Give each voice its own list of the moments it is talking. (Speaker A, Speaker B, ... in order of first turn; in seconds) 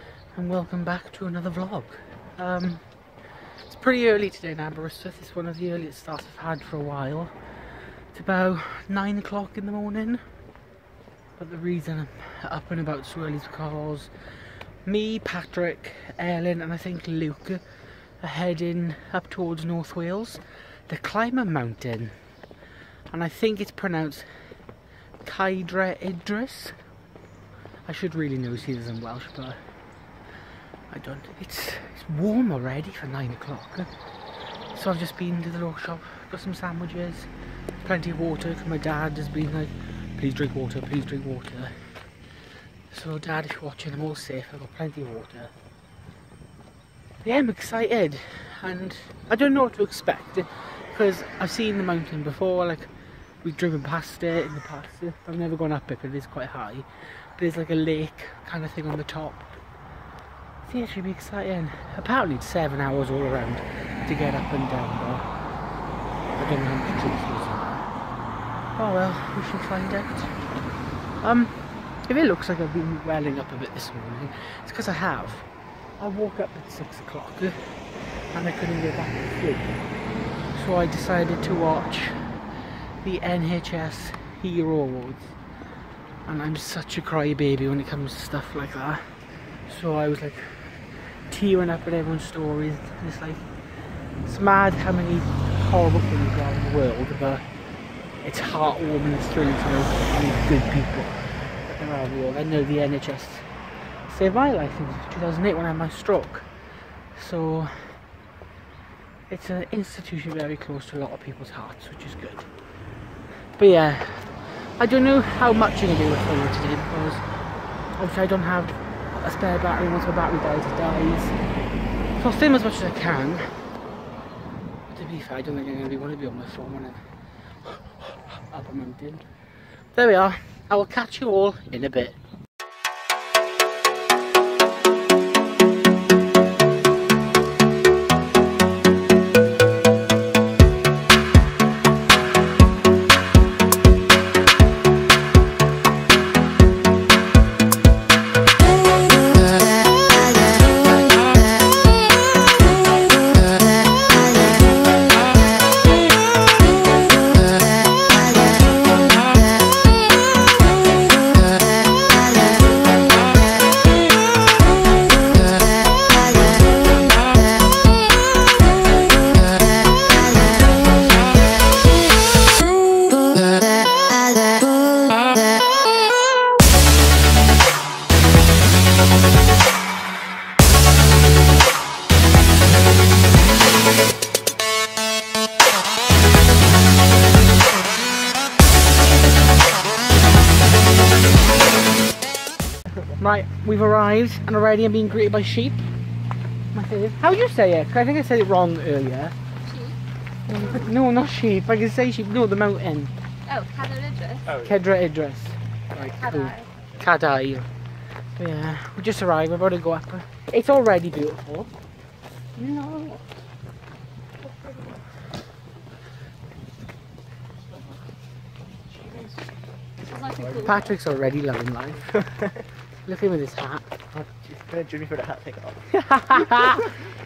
Speaker A: 0.3-2.9, 3.6-7.3, 8.1-10.2, 11.4-14.1, 14.8-17.6, 18.2-22.2, 23.1-24.6, 25.2-26.8, 27.9-29.6, 30.9-33.9, 34.7-37.3, 37.8-41.8, 42.9-45.5, 47.2-52.9, 53.4-59.6, 60.6-65.3, 66.4-67.9, 68.8-70.4, 71.2-71.5, 72.1-75.5, 76.0-77.8, 78.3-79.8, 80.5-82.4, 83.0-85.3, 86.3-89.1, 89.7-93.5, 94.2-97.5, 98.2-103.5, 104.1-106.5, 107.1-108.0, 109.3-112.5, 113.6-117.2, 118.0-121.4, 122.2-123.5, 124.9-127.0, 127.6-129.3, 129.9-132.2, 193.2-195.8, 196.7-199.3, 200.5-203.1, 204.6-207.7, 208.4-211.7, 212.6-213.2, 220.6-222.1, 223.1-223.9, 225.9-226.9
Speaker B: 199.7-200.0, 203.5-204.6, 206.1-206.7, 214.5-214.9, 220.0-220.9
Speaker C: 204.5-204.8, 218.9-219.4, 224.1-225.8